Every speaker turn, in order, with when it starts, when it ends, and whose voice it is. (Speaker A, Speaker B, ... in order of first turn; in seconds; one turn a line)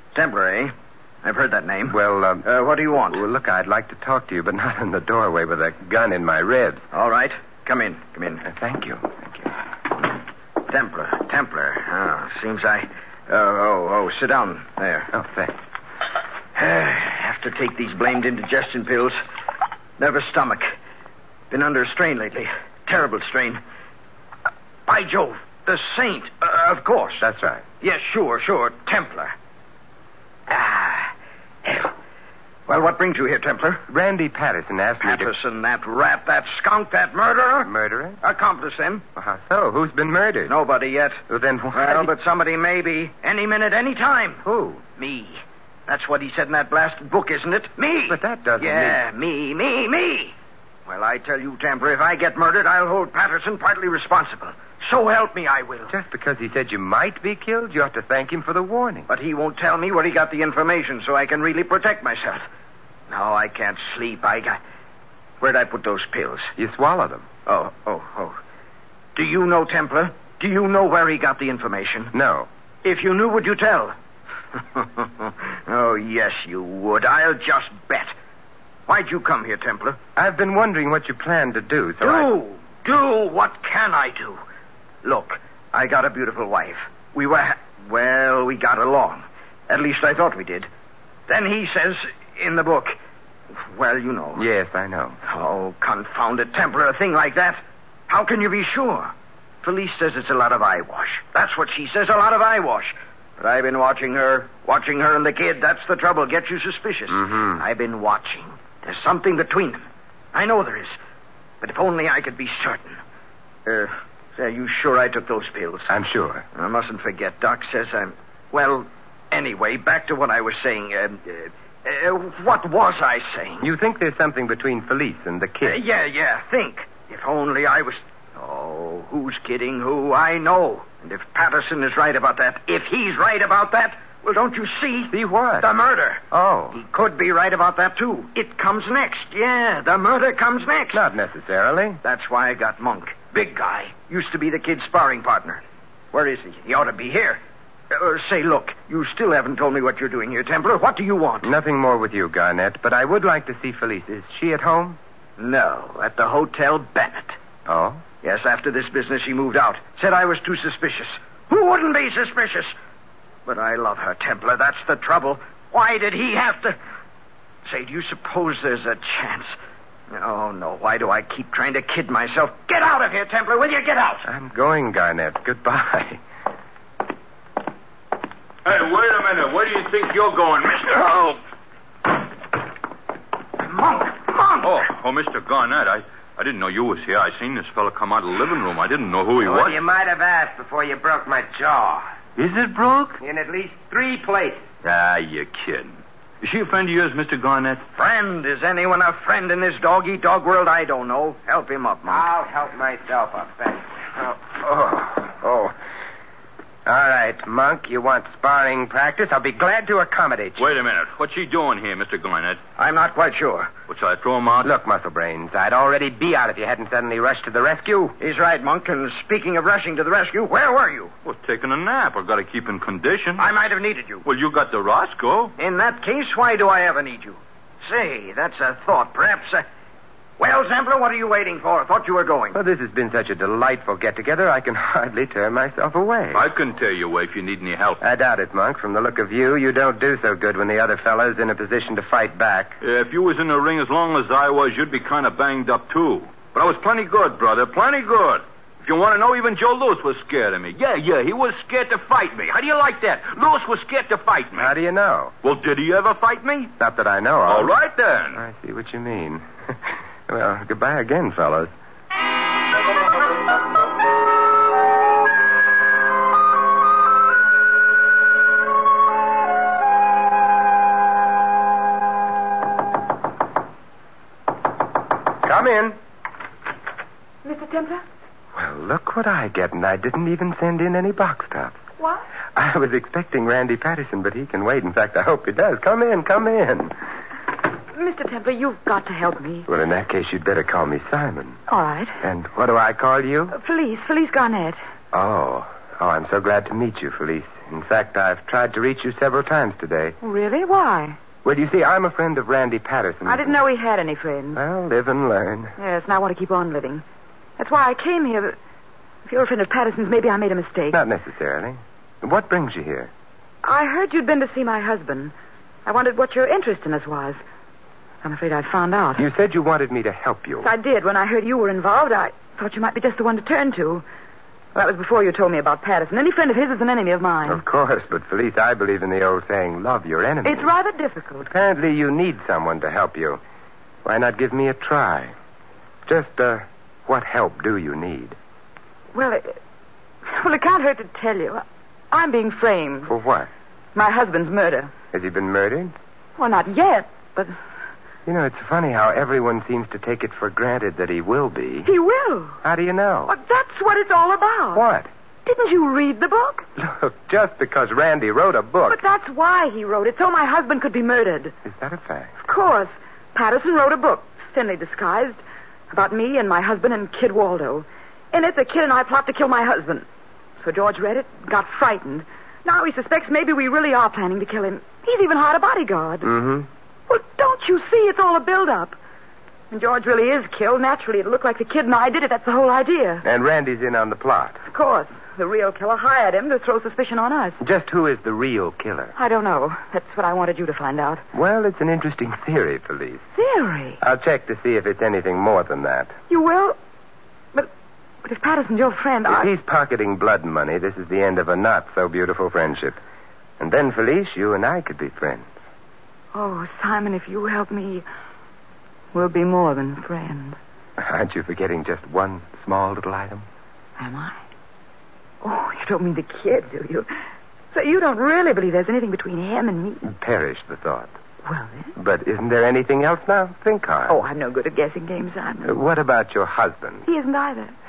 Speaker A: 0.1-3.2
Speaker B: 1.9-2.5
Speaker B: 3.1-6.8
Speaker A: 6.9-8.5
Speaker B: 8.4-9.5
Speaker A: 10.7-15.1
Speaker B: 15.1-15.6
Speaker A: 16.6-19.2
Speaker A: 20.0-20.7
Speaker A: 21.5-23.6
Speaker A: 24.9-27.2
Speaker B: 27.2-27.6
Speaker A: 27.8-29.3
Speaker A: 30.5-31.1
Speaker A: 31.6-31.9
Speaker A: 32.7-33.8
Speaker B: 33.9-35.3
Speaker A: 35.0-37.7
Speaker B: 37.6-38.2
Speaker A: 38.2-39.0
Speaker B: 39.2-40.5
Speaker A: 40.5-41.2
Speaker B: 41.3-42.1
Speaker A: 41.7-44.4
Speaker B: 44.4-44.8
Speaker A: 45.0-50.4
Speaker B: 48.1-49.0
Speaker A: 50.9-55.9
Speaker B: 55.9-59.1
Speaker A: 59.1-62.5
Speaker A: 63.1-64.6
Speaker A: 65.4-66.5
Speaker B: 66.6-67.2
Speaker A: 67.5-68.4
Speaker A: 69.1-72.1
Speaker B: 72.1-72.5
Speaker A: 72.8-73.9
Speaker A: 74.5-78.1
Speaker A: 78.9-80.0
Speaker B: 80.2-82.3
Speaker A: 82.0-84.4
Speaker A: 85.0-90.7
Speaker A: 91.3-93.0
Speaker A: 93.6-94.4
Speaker B: 94.4-95.2
Speaker A: 95.3-111.0
Speaker B: 107.1-107.6
Speaker A: 111.6-113.0
Speaker A: 113.7-115.9
Speaker B: 115.9-116.5
Speaker A: 116.5-123.7
Speaker B: 123.6-125.8
Speaker A: 125.6-136.2
Speaker B: 135.1-135.7
Speaker B: 136.3-136.8
Speaker A: 136.8-141.0
Speaker B: 140.9-142.0
Speaker A: 142.0-145.6
Speaker A: 146.1-147.4
Speaker A: 147.9-151.5
Speaker B: 151.4-155.0
Speaker A: 155.4-157.4
Speaker B: 157.7-158.0
Speaker A: 158.2-162.7
Speaker A: 163.5-166.8
Speaker A: 167.6-169.5
Speaker A: 170.1-174.2
Speaker B: 174.2-176.2
Speaker C: 178.6-181.4
Speaker C: 184.6-189.8
Speaker B: 189.4-192.1
Speaker C: 192.4-193.2
Speaker B: 193.2-194.7
Speaker C: 194.8-197.8
Speaker A: 197.9-202.2
Speaker B: 202.1-205.8
Speaker B: 206.9-210.6
Speaker C: 210.6-212.6
Speaker A: 212.8-213.7
Speaker C: 213.9-214.7
Speaker B: 214.6-218.2
Speaker A: 218.2-221.1
Speaker C: 221.2-223.5
Speaker A: 223.4-224.2
Speaker C: 224.2-225.5
Speaker A: 225.6-229.6
Speaker A: 230.4-232.6
Speaker B: 232.5-236.4
Speaker C: 236.3-238.0
Speaker B: 238.0-242.8
Speaker C: 242.8-254.7
Speaker B: 254.6-255.3
Speaker C: 255.4-256.7
Speaker B: 256.8-257.7
Speaker C: 257.5-258.4
Speaker B: 258.3-261.7
Speaker B: 275.4-276.0
Speaker D: 277.4-278.0
Speaker B: 278.6-281.8
Speaker B: 282.6-286.9
Speaker D: 287.9-289.7
Speaker B: 289.6-291.6
Speaker D: 291.7-292.2
Speaker B: 292.2-293.5
Speaker D: 293.5-294.8
Speaker B: 295.1-300.1
Speaker D: 300.2-301.2
Speaker B: 301.4-303.6
Speaker D: 303.2-304.6
Speaker B: 304.6-305.8
Speaker D: 305.8-307.0
Speaker D: 307.6-308.6
Speaker D: 309.2-311.0
Speaker B: 310.9-313.1
Speaker D: 313.6-315.3
Speaker D: 315.9-317.4
Speaker D: 318.2-319.2
Speaker B: 319.2-320.7
Speaker D: 320.6-324.0
Speaker D: 324.7-327.6
Speaker B: 327.5-330.7
Speaker D: 330.4-331.5
Speaker B: 331.4-333.4
Speaker B: 334.0-335.3
Speaker B: 336.1-338.4
Speaker D: 339.1-339.6
Speaker D: 340.2-343.1
Speaker B: 343.1-343.5
Speaker D: 343.9-344.9
Speaker B: 345.1-345.9
Speaker D: 346.4-347.6
Speaker B: 348.2-351.9
Speaker D: 351.9-352.6
Speaker B: 352.6-353.3
Speaker D: 353.3-354.8
Speaker B: 354.8-355.1
Speaker D: 355.4-356.7
Speaker B: 356.8-359.0
Speaker D: 358.9-361.6
Speaker B: 361.6-362.3
Speaker D: 362.4-370.1
Speaker D: 370.6-376.3
Speaker B: 376.2-376.7
Speaker D: 377.1-379.0
Speaker D: 379.7-383.2
Speaker B: 383.2-384.6
Speaker D: 384.6-387.6
Speaker B: 387.6-389.1
Speaker D: 389.1-391.2
Speaker B: 391.3-393.2
Speaker D: 393.4-394.0
Speaker B: 394.0-396.1
Speaker D: 396.3-396.8
Speaker D: 398.2-399.5
Speaker B: 399.2-403.0
Speaker B: 403.6-405.5
Speaker D: 406.3-408.1
Speaker D: 409.1-410.6
Speaker B: 411.0-413.5
Speaker D: 414.0-414.4
Speaker D: 415.4-417.1
Speaker D: 417.7-420.0
Speaker B: 420.0-421.1
Speaker D: 421.4-421.9
Speaker B: 421.9-424.1
Speaker D: 424.1-425.7
Speaker B: 425.6-427.1
Speaker D: 427.1-427.7